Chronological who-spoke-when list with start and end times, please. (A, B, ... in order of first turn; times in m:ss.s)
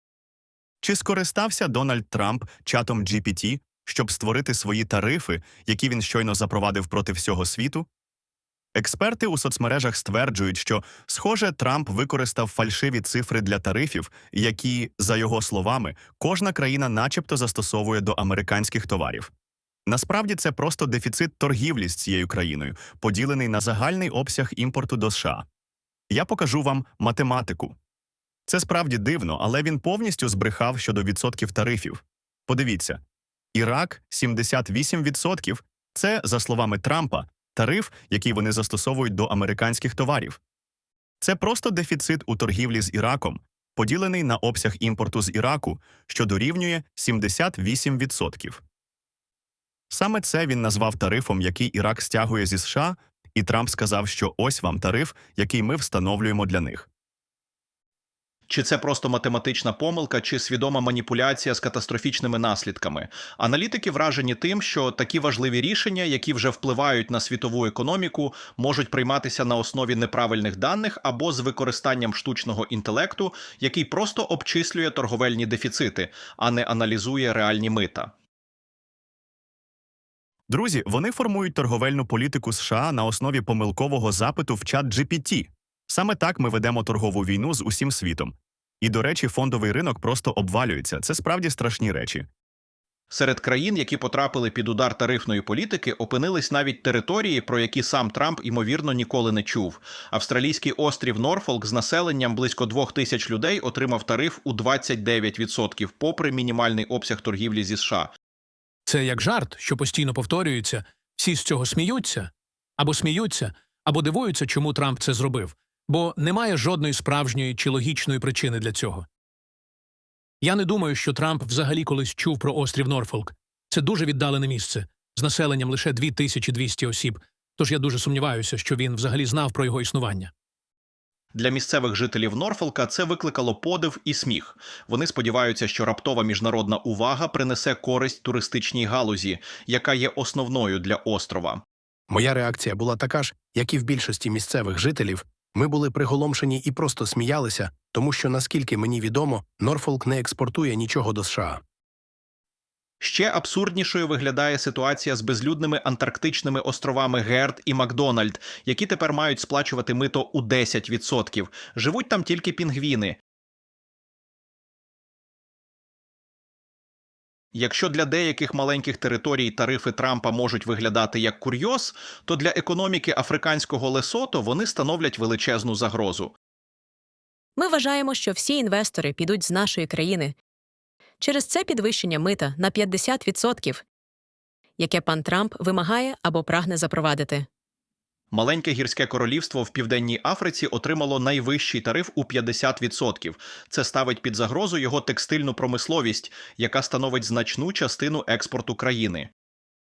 0:00.8-0:07.9 A
0:08.8-0:19.3 A
0:19.9-0:25.4 A
0:26.1-0:27.8 A
0:28.5-0:33.0 A
0:33.5-0:40.4 A
0:41.2-0:48.6 A
0:49.9-0:56.9 A
0:58.5-1:18.1 B
1:20.5-1:32.3 A
1:33.1-1:48.1 B
1:48.9-1:59.1 C
2:00.4-2:10.3 C
2:11.3-2:21.6 B
2:22.1-2:31.6 D
2:33.0-2:43.2 B
2:47.5-2:56.3 B
2:57.6-3:00.3 E
3:01.2-3:03.8 E
3:04.8-3:07.5 E
3:08.3-3:19.3 B